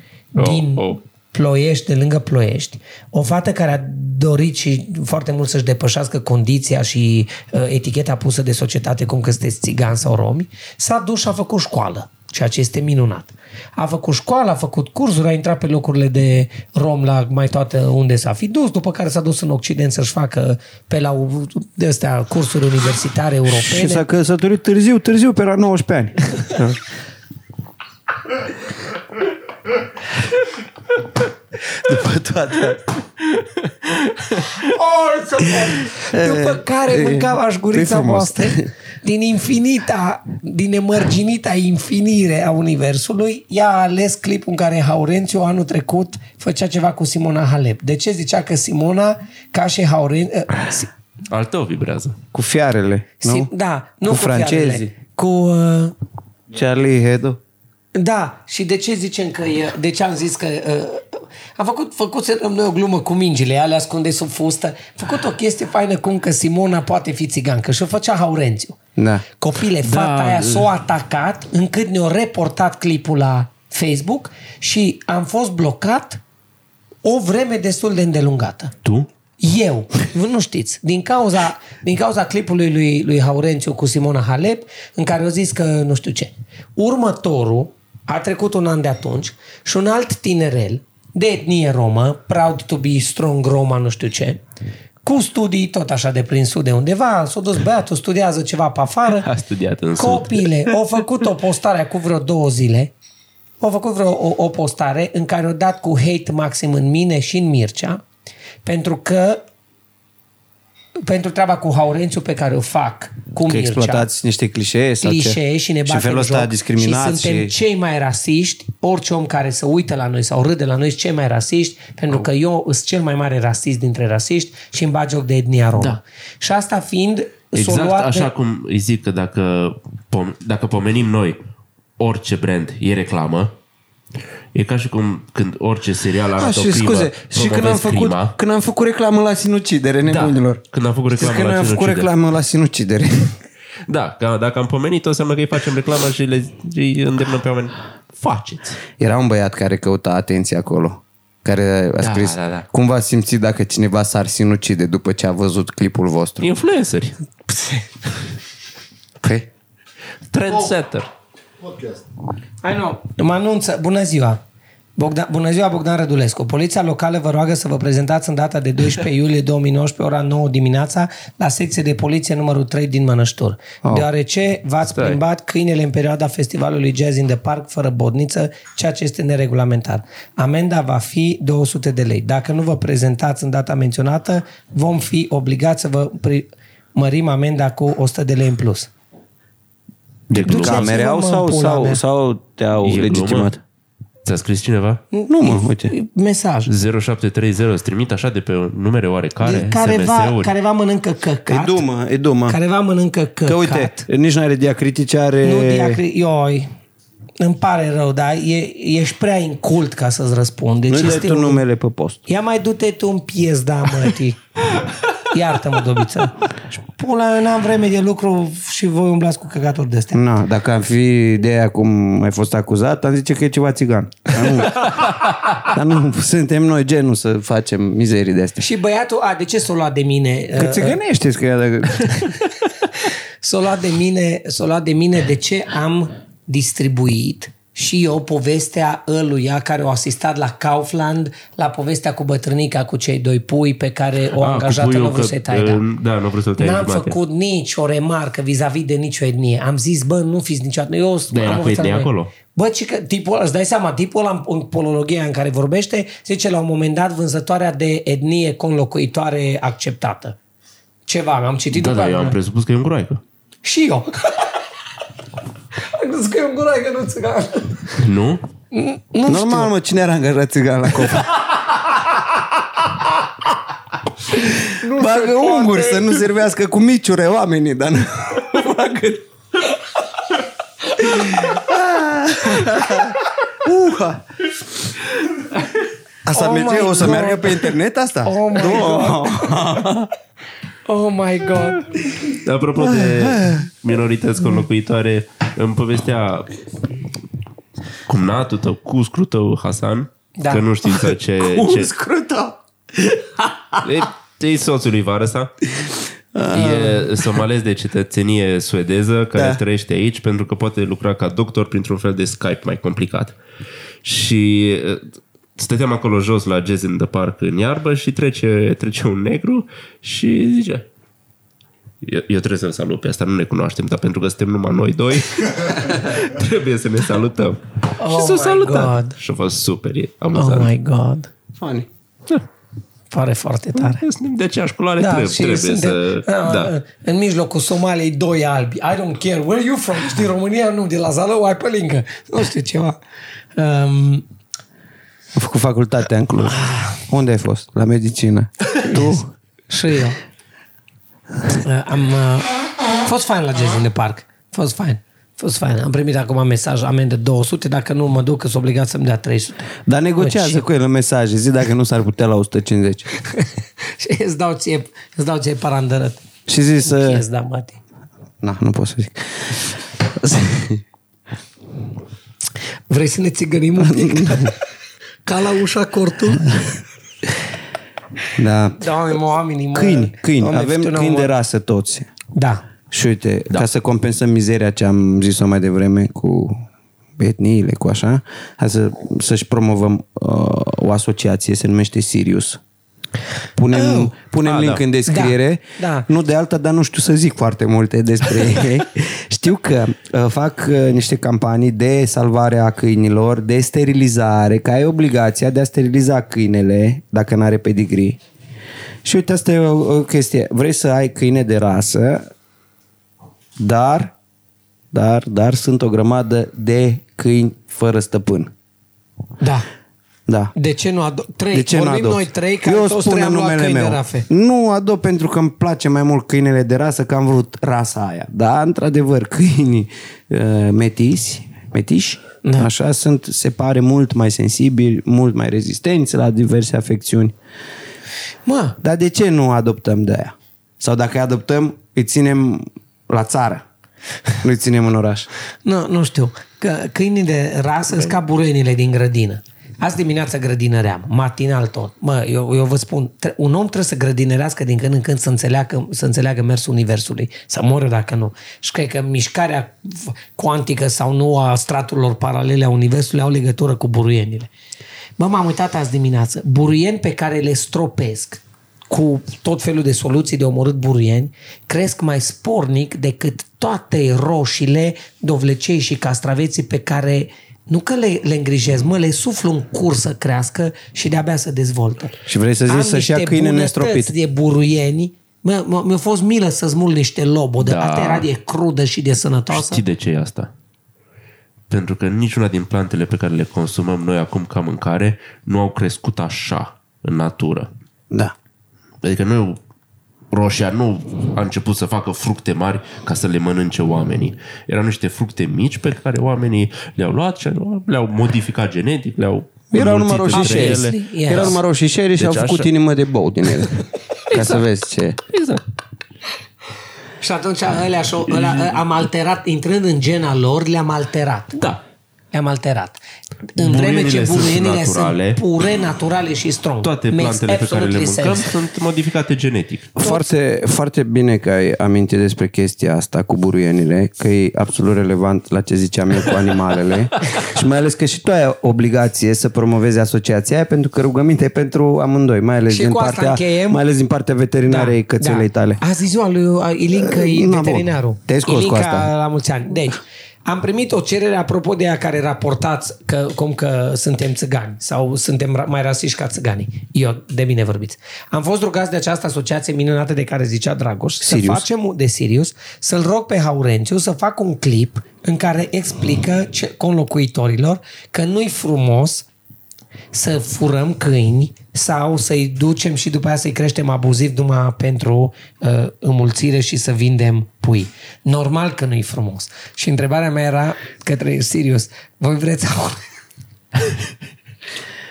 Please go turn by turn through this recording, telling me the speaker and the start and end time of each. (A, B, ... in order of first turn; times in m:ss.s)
0:00.3-0:24.0 A
0:00.4-0:01.0 B
0:23.7-0:26.8 C
0:31.7-0:32.9 C
0:34.6-0:50.9 A
0:36.1-0:38.7 C
0:51.3-0:52.2 B
0:52.3-0:53.5 C
0:53.2-0:55.9 A
0:54.1-0:54.9 C
0:56.5-0:57.4 C
0:58.0-1:08.8 A
1:09.0-1:09.2 C
1:09.4-1:16.2 A
1:09.8-1:10.6 B
1:17.0-1:18.7 A
1:19.4-1:34.4 A
1:35.0-1:39.3 A
1:39.2-1:40.7 B
1:40.0-1:42.9 A
1:43.6-1:48.0 A
1:48.6-1:49.4 A
1:51.0-1:54.1 A
1:53.5-1:57.5 C
1:55.0-2:08.3 A
2:07.5-2:11.4 B
2:12.0-2:13.5 B
2:14.6-2:18.4 B
2:16.4-2:20.6 C
2:20.0-2:22.1 B
2:21.2-2:23.4 C
2:23.9-2:28.8 B
2:29.0-2:36.5 C
2:32.0-2:32.7 B
2:36.4-2:37.2 B
2:37.5-2:37.8 A
2:39.2-2:39.5 C
2:40.3-2:41.1 B
2:42.6-2:44.4 A
2:45.0-3:08.9 A
3:10.3-3:10.9 B
3:10.3-3:13.6 C
3:10.4-3:12.0 A
3:12.8-3:13.5 B
3:14.2-3:15.0 B
3:15.1-3:16.7 A
3:15.3-3:15.9 C
3:16.7-3:20.5 B
3:19.4-3:21.8 A
3:21.5-3:22.6 C
3:22.5-3:24.1 A
3:23.5-3:26.0 C
3:25.4-3:26.7 A
3:27.4-3:31.6 A
3:30.9-3:32.2 C
3:32.3-3:34.4 A
3:35.1-3:40.2 A
3:40.1-3:48.6 C
3:48.6-3:51.0 A
3:50.6-3:52.3 C
3:52.0-4:05.8 A
4:04.4-4:07.2 B
4:06.6-4:20.4 A
4:11.3-4:12.3 B
4:21.1-4:22.4 A
4:21.7-4:23.2 B
4:23.6-4:24.4 A
4:25.9-4:28.0 A
4:28.0-4:28.4 B
4:28.7-4:29.7 A
4:29.3-4:31.3 C
4:34.3-4:39.2 C
4:34.6-4:36.2 A
4:41.0-4:44.2 C
4:42.6-4:43.0 A
4:46.3-4:50.1 C
4:46.3-4:49.8 A
4:50.9-4:52.1 A
4:52.3-4:56.5 B
4:52.8-4:53.6 C
4:58.1-5:01.9 B
5:00.4-5:00.7 A
5:01.4-5:03.8 C
5:03.8-5:05.5 B
5:06.4-5:07.0 C
5:06.5-5:13.4 B
5:09.4-5:09.6 C
5:14.0-5:20.9 B
5:22.0-5:30.7 B
5:28.0-5:29.2 A
5:30.4-5:31.3 A
5:31.6-5:31.9 C
5:33.1-5:34.0 A
5:33.8-5:36.7 B
5:35.0-5:43.0 A
5:43.6-5:44.2 A
5:45.4-5:49.3 C
5:46.6-5:46.9 A
5:48.8-5:49.2 A
5:49.7-5:50.2 A
5:51.5-6:00.6 A
5:59.9-6:03.1 C
6:03.3-6:06.2 A
6:06.5-6:07.2 C
6:06.8-6:07.8 A
6:08.4-6:10.8 C
6:12.9-6:14.6 A
6:13.8-6:14.5 C
6:15.3-6:16.6 A
6:18.4-6:18.9 C
6:18.8-6:21.3 A
6:19.7-6:22.1 C
6:22.3-6:22.6 A
6:22.9-6:26.6 C
6:27.2-6:32.6 C
6:33.6-6:48.2 C
6:33.7-6:34.1 A
6:34.5-6:34.8 B
6:35.1-6:36.1 A
6:49.0-6:52.2 C
6:53.6-6:54.1 C
6:54.9-6:58.5 C
6:59.4-6:59.7 A
7:00.3-7:00.5 C
7:00.6-7:04.3 A
7:01.5-7:17.4 C
7:18.5-7:18.8 A
7:18.8-7:23.6 C
7:24.4-7:25.3 C
7:25.6-7:44.5 A
7:45.2-8:02.1 A
8:02.3-8:04.1 C
8:02.7-8:09.8 A
8:07.6-8:08.3 B
8:09.5-8:10.5 B
8:11.7-8:17.7 B
8:19.0-8:19.6 B
8:20.3-8:31.6 B
8:29.7-8:33.8 C
8:30.3-8:31.6 A
8:32.2-8:32.7 B
8:34.3-8:34.6 B
8:34.3-8:35.2 C
8:35.3-8:35.6 B
8:37.2-8:41.6 A
8:38.3-8:38.8 B
8:41.5-8:41.8 B
8:42.3-8:43.0 A
8:43.6-8:48.5 A
8:43.6-8:45.4 B
8:46.8-8:50.0 B
8:50.0-9:05.8 C
9:02.7-9:03.8 A
9:04.7-9:29.3 A
9:07.0-9:09.1 C
9:21.2-9:21.7 C
9:30.1-9:43.0 A